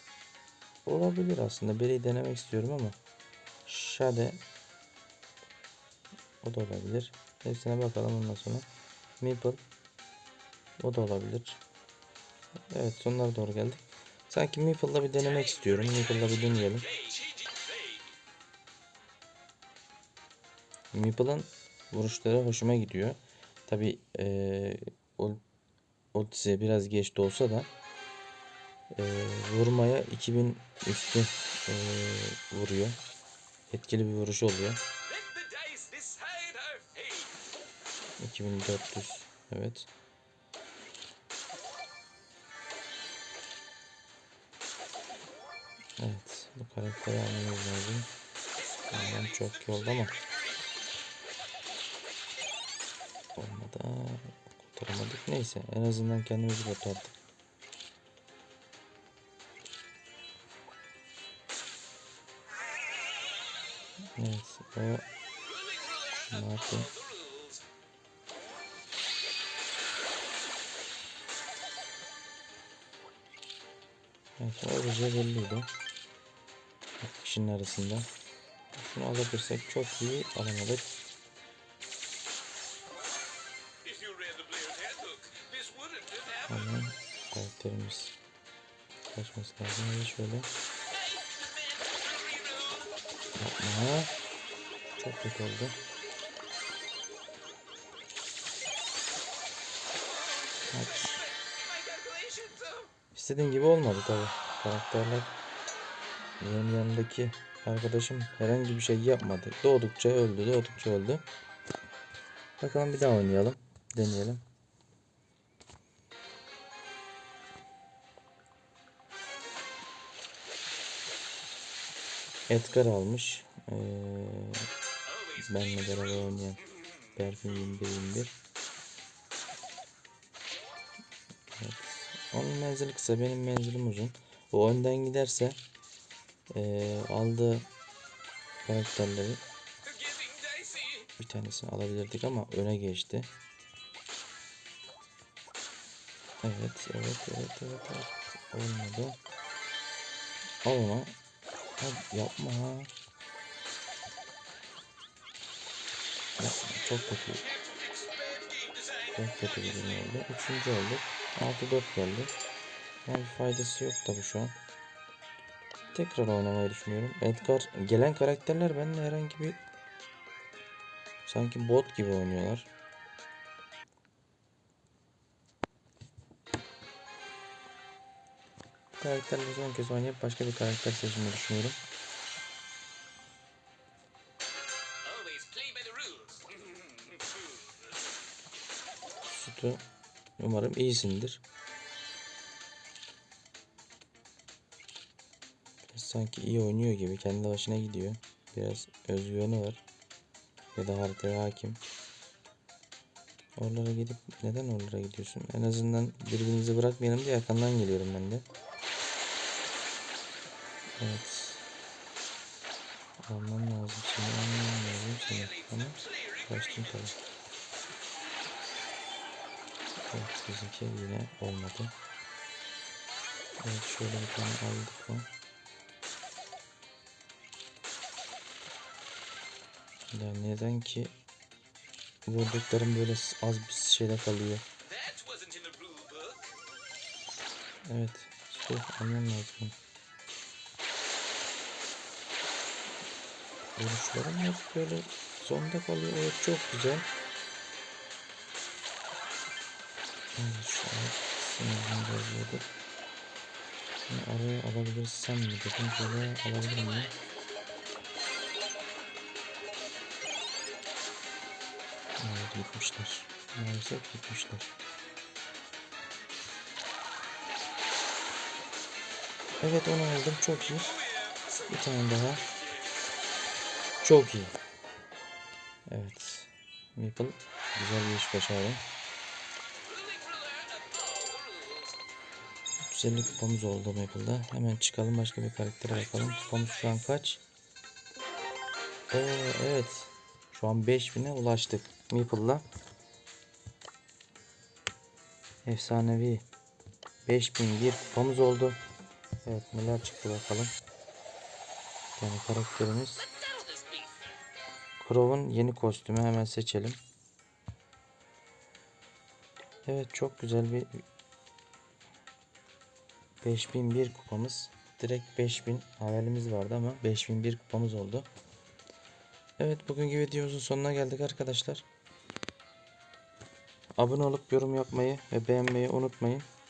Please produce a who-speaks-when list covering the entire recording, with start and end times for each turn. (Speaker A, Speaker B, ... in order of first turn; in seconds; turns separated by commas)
Speaker A: 0.8-3.0, Speaker A: 3.6-4.4, Speaker A: 6.4-8.7, Speaker A: 9.2-9.6, Speaker A: 10.8-11.6, Speaker A: 12.7-17.1, Speaker A: 20.9-25.4, Speaker A: 26.1-27.7, Speaker A: 28.9-33.0, Speaker A: 33.7-34.8, Speaker B: 35.3-37.3, Speaker A: 38.2-39.9, Speaker A: 46.0-48.1, Speaker A: 48.9-50.2, Speaker A: 53.4-57.1, Speaker A: 64.2-65.0, Speaker A: 66.1-66.9, Speaker A: 74.4-75.7, Speaker A: 77.0-78.1, Speaker A: 78.8-80.9, Speaker B: 83.9-86.1, Speaker A: 86.5-88.2, Speaker A: 89.1-90.5, Speaker B: 91.3-92.6, Speaker A: 93.4-94.1, Speaker A: 94.9-95.8, Speaker A: 100.7-101.3, Speaker B: 102.0-102.7, Speaker A: 103.1-105.3, Speaker A: 106.4-111.2, Speaker A: 112.6-114.4, Speaker A: 122.5-124.7, Speaker A: 125.3-126.6, Speaker A: 127.1-128.3, Speaker A: 131.6-135.6, Speaker A: 136.5-137.7, Speaker A: 138.7-139.4, Speaker B: 140.2-140.8, Speaker A: 141.2-143.3, Speaker A: 146.4-149.2, Speaker A: 150.6-151.1, Speaker A: 151.8-152.9, Speaker A: 156.4-157.5, Speaker A: 159.1-162.3, Speaker A: 163.1-164.6, Speaker A: 165.9-169.6, Speaker A: 171.2-172.7, Speaker A: 179.0-181.8, Speaker B: 185.1-186.5, Speaker A: 189.2-189.8, Speaker A: 190.4-191.4, Speaker A: 195.9-199.8, Speaker A: 200.7-201.8, Speaker A: 203.6-208.4, Speaker A: 211.0-211.7, Speaker A: 213.2-217.2, Speaker A: 220.1-221.9, Speaker A: 223.6-225.3, Speaker A: 230.1-231.1, Speaker A: 232.2-234.7, Speaker B: 235.1-236.3, Speaker A: 237.8-239.7, Speaker A: 243.8-247.1, Speaker A: 250.3-252.7, Speaker A: 254.1-257.1, Speaker A: 262.2-264.7, Speaker A: 269.6-271.0, Speaker A: 271.6-272.4, Speaker A: 274.0-274.5, Speaker A: 275.9-278.8, Speaker B: 280.1-281.4, Speaker A: 282.8-287.4, Speaker A: 289.1-292.6, Speaker A: 295.6-296.4, Speaker A: 297.2-298.8, Speaker A: 299.4-300.7, Speaker A: 302.2-303.3, Speaker A: 305.0-307.0, Speaker A: 309.8-311.0, Speaker A: 313.4-318.3, Speaker A: 319.6-321.9, Speaker A: 324.0-326.5